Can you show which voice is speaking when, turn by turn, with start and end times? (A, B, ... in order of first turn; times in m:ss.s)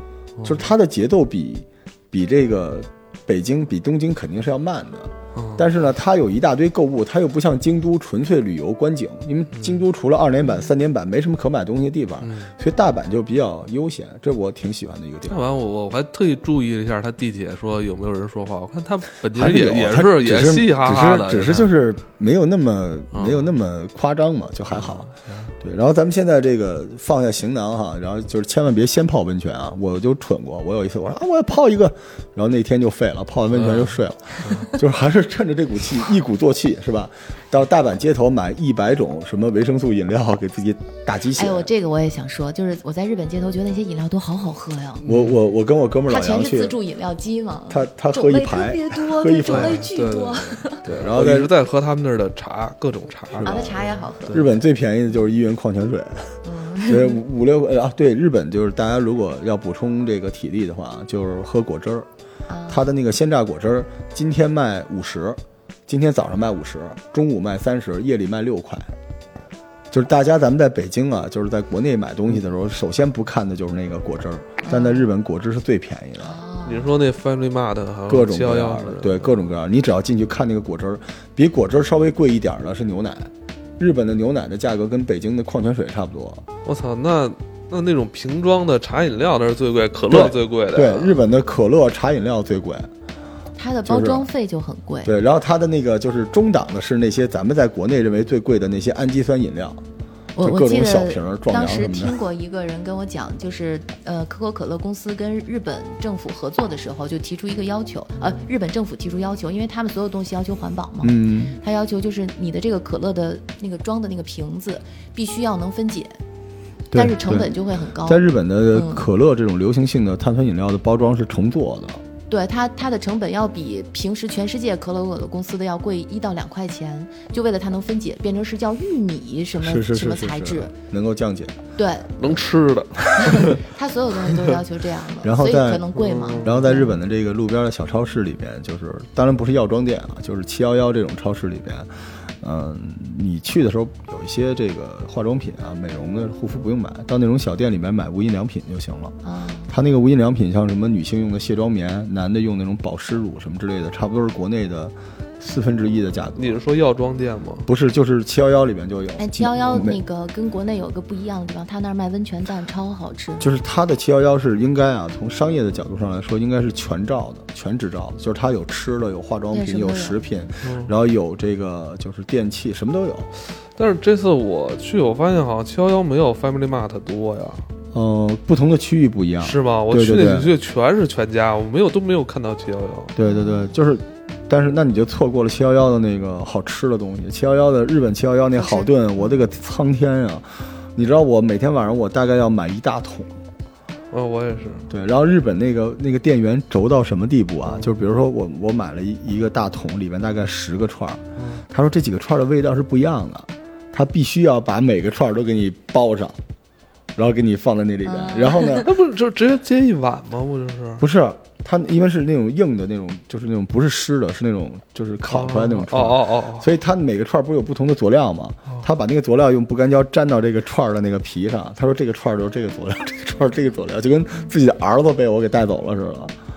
0:00.4-0:00.7 A
0:00.4-0:15.5 B
0:05.3-0:05.7 A
0:12.2-0:12.5 A
0:15.3-0:21.7 A
0:19.3-0:41.7 B
0:23.1-0:23.5 A
0:24.7-0:25.5 A
0:33.5-0:34.6 A
0:41.4-0:45.0 C
0:45.0-0:45.4 A
0:45.0-0:46.8 B
0:46.1-0:50.8 C
0:47.7-0:49.8 B
0:49.5-0:54.5 A
0:50.8-0:51.5 B
0:53.4-1:02.1 B
0:53.4-0:54.4 C
0:56.4-0:57.2 C
1:02.5-1:02.9 C
1:02.7-1:08.9 B
1:09.9-1:16.4 B
1:14.6-1:15.1 C
1:16.2-1:16.9 C
1:16.6-1:19.5 A
1:18.1-1:26.4 B
1:26.6-1:31.2 A
1:30.1-1:32.9 B
1:33.6-1:35.1 C
1:33.8-1:34.3 B
1:35.0-1:39.8 B
1:40.4-1:56.2 C
1:40.4-1:42.2 B
1:51.0-1:51.6 B
1:56.9-2:02.0 B
1:56.9-1:59.0 C
2:02.3-2:10.7 C
2:09.6-2:11.6 B
2:11.8-2:12.4 C
2:12.2-2:13.6 A
2:13.2-2:16.9 C
2:15.2-2:29.2 B
2:16.0-2:16.9 A
2:29.2-2:29.7 C
2:29.7-2:36.6 B
2:36.4-2:37.7 A
2:37.6-2:40.0 B
2:39.2-2:43.5 C
2:43.4-2:53.3 B
2:49.5-2:50.2 C
2:50.6-2:50.9 A
2:53.8-2:57.6 A
2:57.9-3:00.5 B
2:59.4-3:03.1 A
3:03.2-3:13.3 B
3:03.2-3:03.7 C
3:08.6-3:08.9 C
3:14.1-3:14.9 A
3:14.9-3:26.4 B
3:17.7-3:17.9 A
3:21.4-3:21.6 A
3:27.2-3:28.9 B
3:28.0-3:28.8 C
3:28.7-3:31.0 A
3:31.0-3:46.3 B
3:35.3-3:36.7 A